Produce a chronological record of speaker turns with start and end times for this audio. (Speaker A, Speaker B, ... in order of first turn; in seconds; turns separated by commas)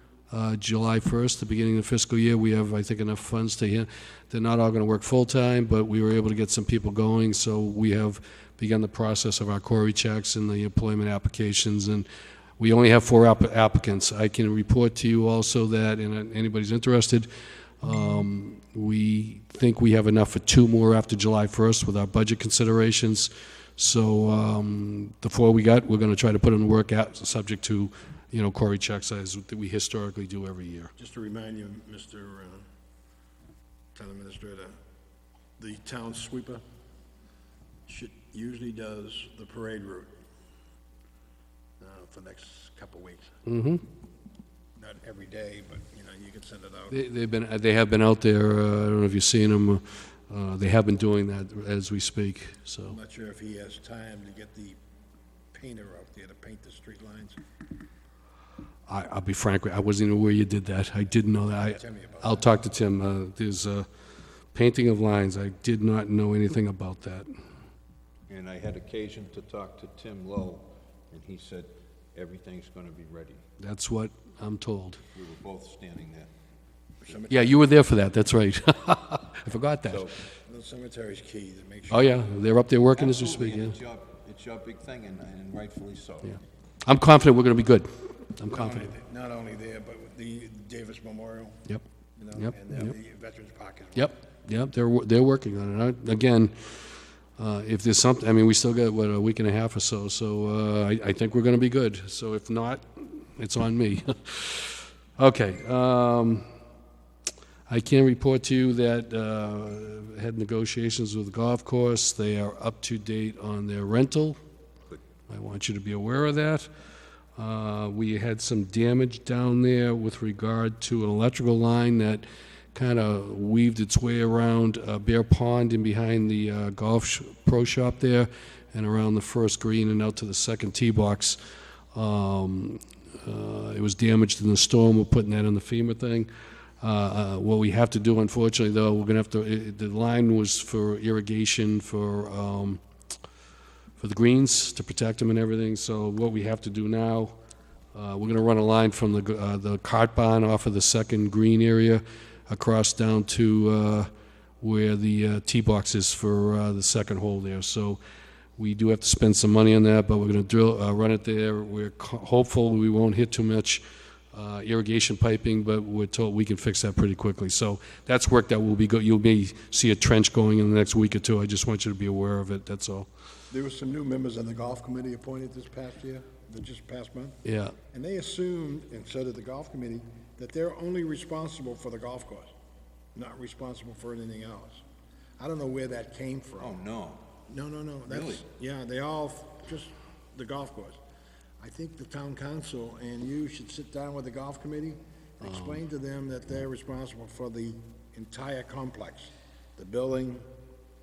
Speaker A: 0.3-12.1, Speaker A: 12.6-17.3, Speaker A: 17.8-30.9, Speaker B: 31.0-32.6, Speaker B: 34.0-34.7, Speaker B: 35.6-36.6, Speaker B: 37.9-40.1, Speaker B: 41.8-43.3, Speaker A: 43.5-43.8, Speaker B: 44.8-47.0, Speaker A: 46.9-53.0, Speaker B: 52.9-54.8, Speaker B: 55.5-57.4, Speaker A: 58.9-63.9, Speaker B: 61.7-62.5, Speaker A: 64.5-67.3, Speaker C: 68.3-73.4, Speaker A: 73.6-75.0, Speaker C: 75.1-76.3, Speaker B: 77.0-77.6, Speaker A: 77.3-80.0, Speaker C: 79.8-80.2, Speaker B: 80.5-82.2, Speaker A: 81.9-83.8, Speaker C: 83.0-86.4, Speaker A: 86.8-88.9, Speaker B: 88.5-91.6, Speaker B: 92.2-94.2, Speaker A: 92.4-92.9, Speaker A: 94.0-96.8, Speaker A: 97.4-106.5, Speaker A: 107.7-114.4, Speaker A: 115.3-116.7, Speaker A: 117.4-131.4, Speaker A: 131.9-136.3, Speaker A: 136.8-142.8, Speaker A: 144.0-147.4, Speaker A: 147.9-154.1, Speaker A: 154.6-158.0, Speaker A: 158.6-173.1, Speaker B: 173.5-177.4, Speaker A: 177.4-177.8, Speaker B: 177.9-182.5, Speaker B: 183.1-184.8, Speaker B: 185.4-186.8, Speaker C: 186.6-187.2, Speaker B: 187.5-191.0, Speaker C: 188.1-188.4, Speaker B: 191.6-200.4, Speaker A: 195.4-195.8